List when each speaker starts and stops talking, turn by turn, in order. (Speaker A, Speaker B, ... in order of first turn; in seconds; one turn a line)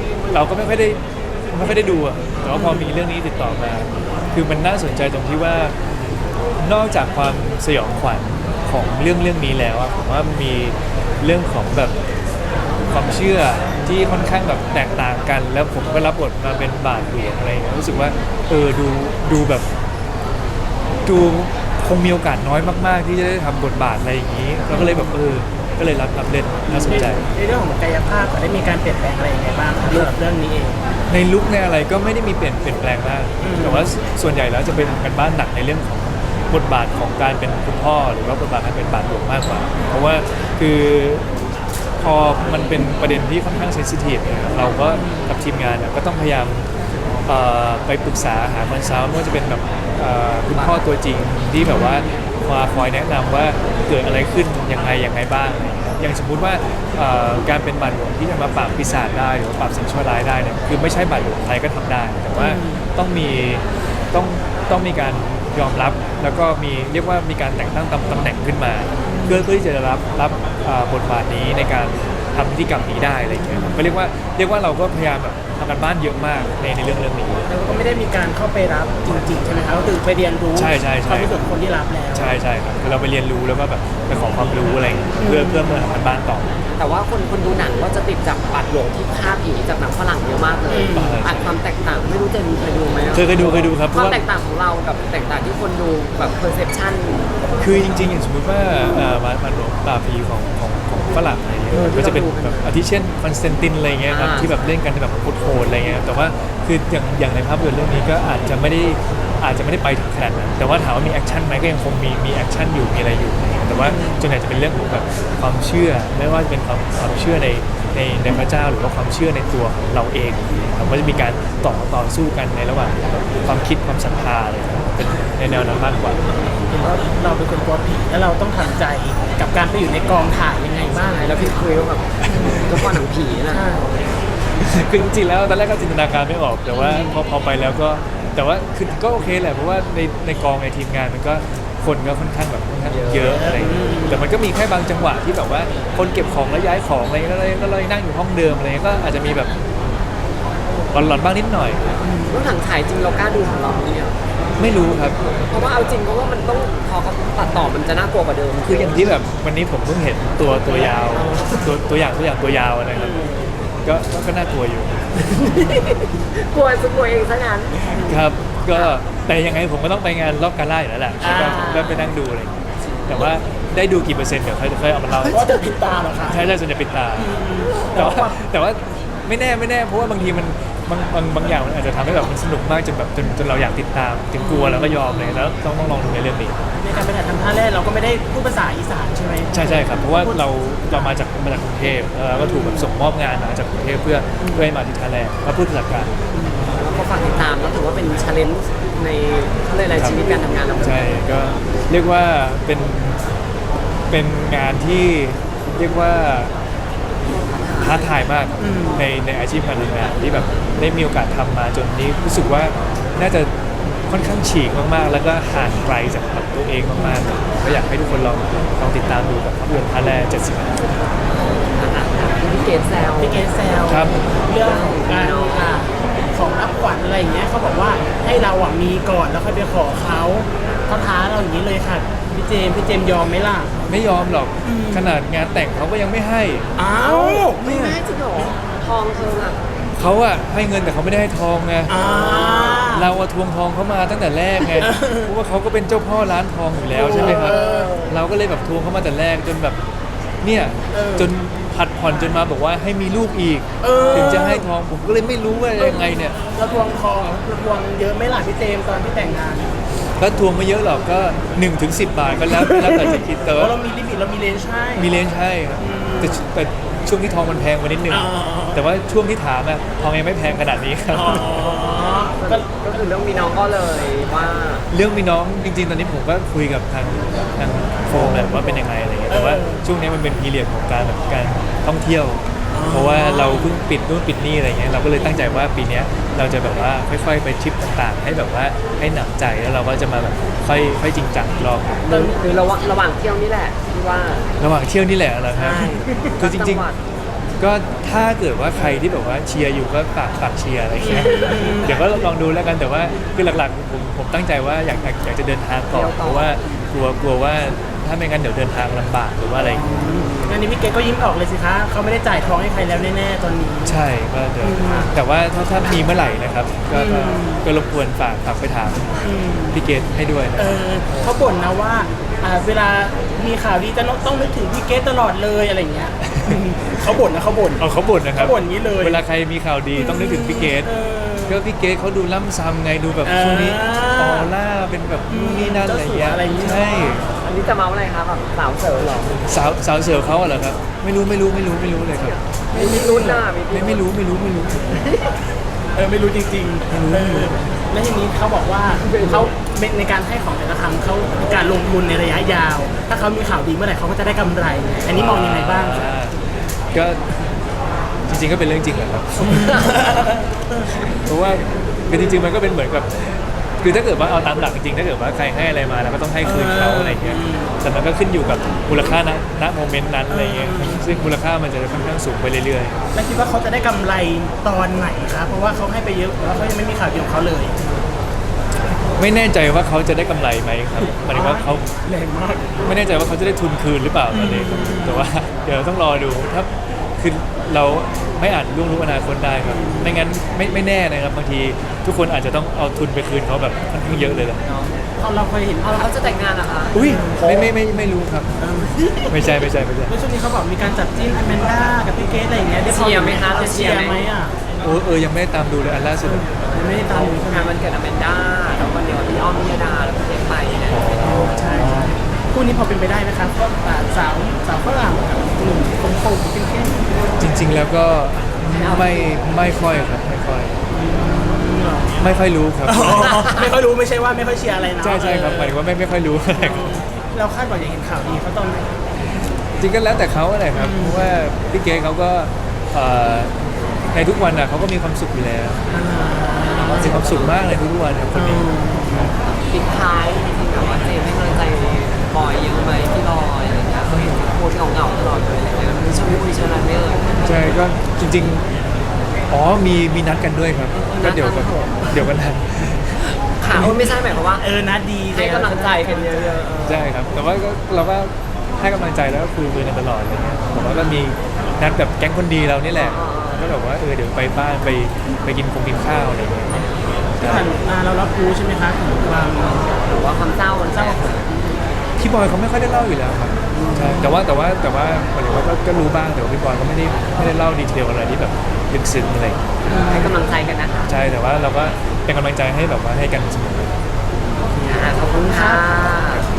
Speaker A: 0.3-5.8
Speaker B: 2.5-2.9
Speaker A: 6.6-12.0
Speaker A: 12.9-19.7
Speaker A: 21.1-27.3
Speaker B: 24.7-25.1
Speaker C: 26.7-27.1
Speaker B: 26.9-30.8
Speaker A: 31.1-41.3
Speaker B: 33.4-33.9
Speaker A: 42.0-46.7
Speaker B: 44.9-45.3
Speaker A: 47.2-77.5
Speaker B: 51.6-52.0
Speaker B: 62.3-62.9
Speaker B: 69.1-69.5
Speaker B: 73.4-74.0
Speaker B: 77.5-82.3
Speaker A: 80.5-81.3
Speaker A: 82.1-86.6
Speaker B: 85.2-85.9
Speaker C: 86.8-97.3
Speaker B: 90.7-91.2
Speaker A: 91.0-91.4
Speaker A: 93.1-94.2
Speaker A: 97.6-126.2
Speaker C: 101.7-102.7
Speaker C: 104.1-104.5
Speaker C: 113.8-114.2
Speaker B: 126.7-131.4
Speaker C: 131.0-133.6
Speaker B: 132.3-132.7
Speaker A: 132.3-133.0
Speaker B: 133.5-133.9
Speaker A: 134.6-149.5
Speaker B: 136.8-137.1
Speaker C: 142.9-143.4
Speaker B: 143.2-144.3
Speaker A: 150.9-151.8
Speaker B: 152.0-152.5
Speaker C: 152.1-154.1
Speaker A: 154.6-155.2
Speaker C: 155.4-159.1
Speaker A: 158.6-163.2
Speaker C: 161.1-161.7
Speaker B: 162.9-163.5
Speaker A: 163.8-165.2
Speaker C: 165.2-168.0
Speaker B: 167.9-168.2
Speaker A: 168.1-172.6
Speaker C: 168.7-169.0
Speaker B: 171.2-172.1
Speaker C: 172.8-173.3
Speaker A: 173.1-175.5
Speaker B: 175.2-176.4
Speaker A: 176.3-177.3
Speaker B: 177.1-178.4
Speaker A: 177.9-186.6
Speaker B: 184.4-185.0
Speaker B: 186.7-191.2
Speaker A: 189.5-196.1
Speaker B: 192.3-192.9
Speaker B: 194.4-194.8
Speaker B: 196.3-196.7
Speaker C: 196.7-201.2
Speaker A: 200.0-200.2
Speaker A: 200.8-203.2
Speaker A: 204.1-206.5
Speaker C: 207.3-208.1
Speaker A: 207.8-213.5
Speaker B: 208.6-209.0
Speaker A: 214.1-220.9
Speaker B: 216.9-217.2
Speaker C: 221.2-223.4
Speaker B: 223.2-233.8
Speaker A: 223.9-224.2
Speaker C: 224.6-225.8
Speaker C: 230.6-231.2
Speaker A: 233.9-236.7
Speaker B: 234.6-235.2
Speaker B: 236.8-238.6
Speaker C: 237.0-239.6
Speaker A: 240.0-242.0
Speaker B: 241.9-243.1
Speaker C: 242.0-242.9
Speaker A: 242.9-249.8
Speaker B: 244.8-245.3
Speaker B: 246.9-248.2
Speaker C: 247.1-248.1
Speaker A: 250.4-256.4
Speaker B: 250.9-251.3
Speaker B: 253.8-254.7
Speaker C: 254.0-254.3
Speaker B: 255.8-259.8
Speaker A: 260.2-263.8
Speaker B: 262.4-265.1
Speaker A: 265.0-271.7
Speaker B: 265.8-266.4
Speaker B: 268.1-268.8
Speaker B: 271.1-272.7
Speaker C: 272.3-274.9
Speaker A: 274.9-292.2
Speaker B: 278.1-278.6
Speaker B: 279.3-279.9
Speaker B: 282.7-283.8
Speaker B: 292.1-292.5
Speaker C: 292.1-294.5
Speaker A: 294.6-296.9
Speaker B: 295.6-296.4
Speaker C: 295.6-297.0
Speaker A: 297.6-309.9
Speaker B: 301.0-302.0
Speaker C: 301.1-301.9
Speaker C: 305.9-306.6
Speaker B: 309.6-314.0
Speaker C: 310.2-310.6
Speaker A: 313.8-319.2
Speaker B: 314.6-315.1
Speaker C: 314.9-315.1
Speaker B: 316.9-317.6
Speaker B: 319.2-319.8
Speaker A: 319.7-320.7
Speaker B: 320.6-327.9
Speaker A: 326.2-326.6
Speaker A: 327.8-330.9
Speaker B: 328.4-329.2
Speaker B: 329.9-331.6
Speaker A: 331.5-337.3
Speaker B: 333.2-334.5
Speaker B: 335.3-337.2
Speaker C: 337.4-339.4
Speaker A: 339.5-342.4
Speaker C: 342.1-344.1
Speaker B: 342.7-343.4
Speaker A: 343.7-345.0
Speaker B: 345.9-356.1
Speaker A: 346.9-347.6
Speaker C: 348.9-349.5
Speaker A: 355.1-357.5
Speaker A: 358.3-359.9
Speaker B: 359.4-361.0
Speaker A: 361.2-373.0
Speaker B: 366.4-367.8
Speaker B: 370.3-371.2
Speaker B: 373.1-378.0
Speaker A: 379.1-381.9
Speaker B: 381.1-382.8
Speaker A: 382.8-394.6
Speaker B: 384.3-385.3
Speaker B: 389.6-390.2
Speaker B: 394.1-394.5
Speaker C: 394.6-394.9
Speaker B: 395.2-397.8
Speaker C: 395.8-397.0
Speaker A: 396.9-398.6
Speaker B: 398.6-404.6
Speaker A: 399.3-400.1
Speaker C: 402.9-404.2
Speaker A: 404.8-406.5
Speaker B: 406.2-407.8
Speaker C: 406.8-411.1
Speaker A: 410.9-412.2
Speaker B: 411.2-417.0
Speaker A: 417.4-420.8
Speaker C: 418.8-419.1
Speaker B: 420.9-422.2
Speaker A: 422.2-423.4
Speaker B: 422.9-425.8
Speaker C: 423.1-423.7
Speaker A: 425.0-427.0
Speaker B: 426.5-429.0
Speaker A: 429.8-433.5
Speaker B: 430.7-431.4
Speaker A: 434.1-435.8
Speaker B: 435.9-437.2
Speaker C: 436.7-437.7
Speaker A: 437.0-438.7
Speaker B: 438.3-439.3
Speaker C: 439.6-447.8
Speaker A: 444.1-444.4
Speaker A: 447.4-448.7
Speaker A: 449.5-453.2
Speaker C: 450.9-452.1
Speaker C: 453.2-454.6
Speaker B: 453.7-456.8
Speaker C: 455.3-457.2
Speaker A: 456.9-467.7
Speaker C: 460.8-461.2
Speaker C: 462.9-463.7
Speaker B: 467.4-470.1
Speaker C: 470.0-471.6
Speaker B: 470.8-471.4
Speaker A: 472.2-479.6
Speaker B: 473.7-474.4
Speaker B: 479.9-480.4
Speaker C: 480.0-481.2
Speaker A: 481.1-484.0
Speaker C: 484.8-486.5
Speaker B: 484.8-485.9